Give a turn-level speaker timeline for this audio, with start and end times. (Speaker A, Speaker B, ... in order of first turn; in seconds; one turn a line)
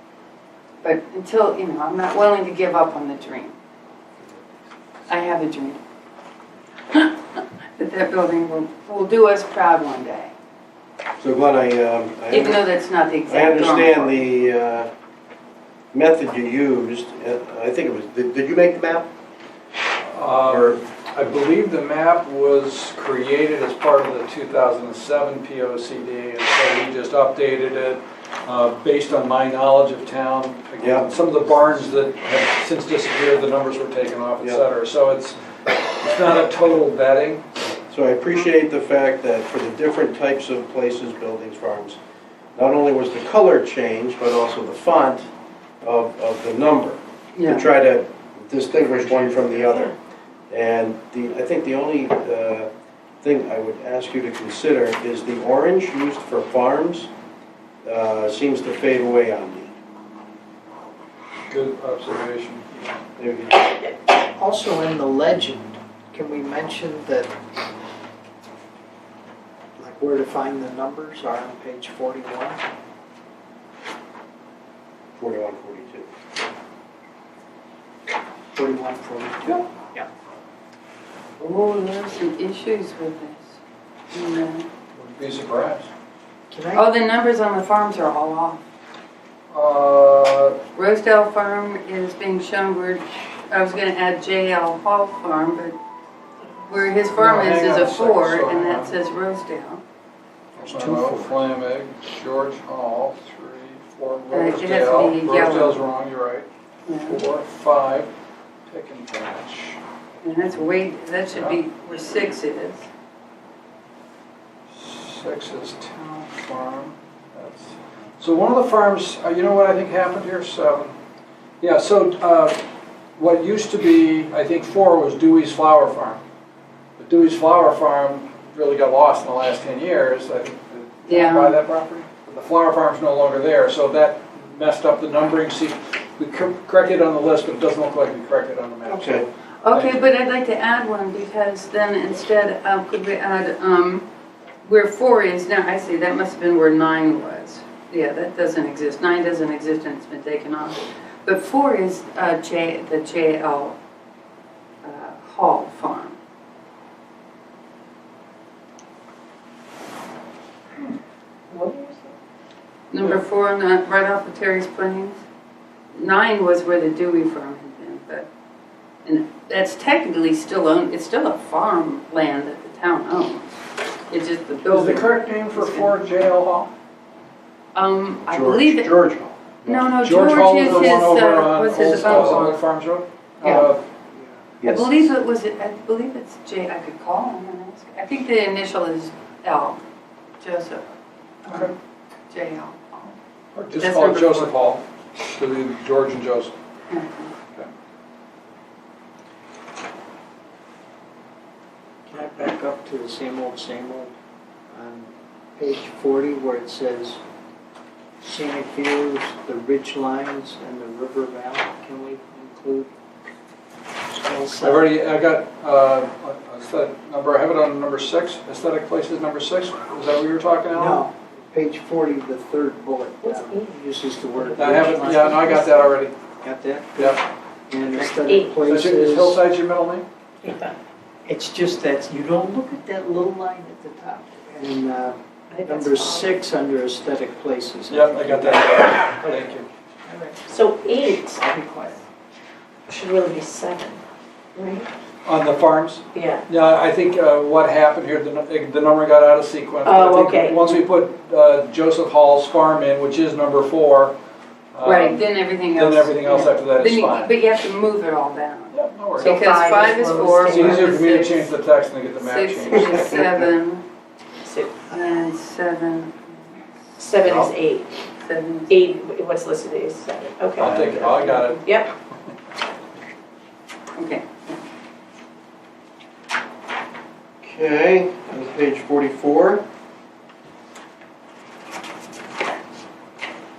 Speaker A: 0.8-3.5
Speaker A: 5.1-5.8
Speaker A: 6.9-10.3
Speaker B: 11.2-12.6
Speaker A: 12.3-14.2
Speaker B: 13.3-14.9
Speaker B: 15.9-19.1
Speaker C: 20.1-37.4
Speaker B: 20.5-20.8
Speaker B: 30.8-31.1
Speaker B: 34.4-34.6
Speaker B: 37.9-42.0
Speaker B: 42.5-45.2
Speaker B: 45.8-49.9
Speaker A: 47.3-47.7
Speaker B: 50.5-52.7
Speaker B: 53.2-57.1
Speaker B: 57.8-59.7
Speaker C: 61.5-63.0
Speaker B: 63.2-63.7
Speaker D: 64.3-67.3
Speaker D: 69.8-72.6
Speaker B: 75.2-76.1
Speaker D: 78.5-80.1
Speaker A: 81.4-83.6
Speaker A: 84.1-84.7
Speaker C: 84.9-85.9
Speaker D: 86.5-86.8
Speaker A: 86.7-88.6
Speaker C: 89.5-90.6
Speaker A: 90.7-95.8
Speaker A: 96.7-99.8
Speaker C: 97.1-98.9
Speaker C: 100.5-106.5
Speaker D: 100.8-101.3
Speaker A: 104.3-105.8
Speaker A: 106.8-107.2
Speaker C: 107.0-108.1
Speaker C: 108.7-109.8
Speaker A: 110.2-112.9
Speaker C: 111.3-111.6
Speaker C: 114.7-121.0
Speaker C: 121.6-122.6
Speaker C: 123.2-126.2
Speaker C: 127.0-140.0
Speaker A: 131.1-131.6
Speaker B: 138.8-139.2
Speaker A: 139.6-144.0
Speaker A: 144.6-153.8
Speaker A: 154.8-156.2
Speaker E: 161.5-162.1
Speaker A: 162.9-165.2
Speaker A: 165.9-168.3
Speaker A: 169.0-173.6
Speaker A: 174.1-176.1
Speaker C: 174.6-176.7
Speaker A: 177.7-178.9
Speaker B: 178.3-179.9
Speaker A: 179.7-182.6
Speaker C: 180.0-183.8
Speaker B: 180.6-181.0
Speaker B: 181.9-182.4
Speaker A: 183.4-183.7
Speaker B: 184.6-185.1
Speaker A: 184.6-189.8
Speaker A: 190.4-190.8
Speaker A: 191.4-191.7
Speaker A: 192.3-193.1
Speaker C: 193.5-196.5
Speaker A: 193.8-194.5
Speaker A: 196.9-197.3
Speaker D: 202.1-204.1
Speaker D: 204.7-207.2
Speaker D: 208.2-212.9
Speaker D: 214.1-214.9
Speaker C: 214.6-221.0
Speaker D: 220.7-225.8
Speaker E: 223.2-223.7
Speaker C: 224.4-226.2
Speaker E: 225.4-225.7
Speaker D: 226.4-229.4
Speaker E: 227.9-228.6
Speaker C: 228.6-230.0
Speaker E: 230.4-230.7
Speaker D: 231.2-239.4
Speaker E: 235.5-236.4
Speaker C: 237.9-239.7
Speaker D: 240.1-240.3
Speaker E: 240.5-241.4
Speaker D: 241.3-242.0
Speaker E: 242.9-244.0
Speaker E: 244.5-244.9
Speaker C: 245.2-254.2
Speaker E: 246.1-246.4
Speaker E: 249.8-250.8
Speaker C: 254.7-257.3
Speaker A: 254.8-261.5
Speaker C: 258.7-259.4
Speaker E: 259.1-261.1
Speaker C: 260.5-263.1
Speaker A: 262.2-263.8
Speaker E: 264.4-264.8
Speaker A: 264.9-266.6
Speaker E: 267.0-267.9
Speaker C: 267.2-267.5
Speaker A: 268.2-268.9
Speaker E: 268.7-271.9
Speaker C: 270.6-271.6
Speaker A: 273.9-274.6
Speaker B: 277.4-279.6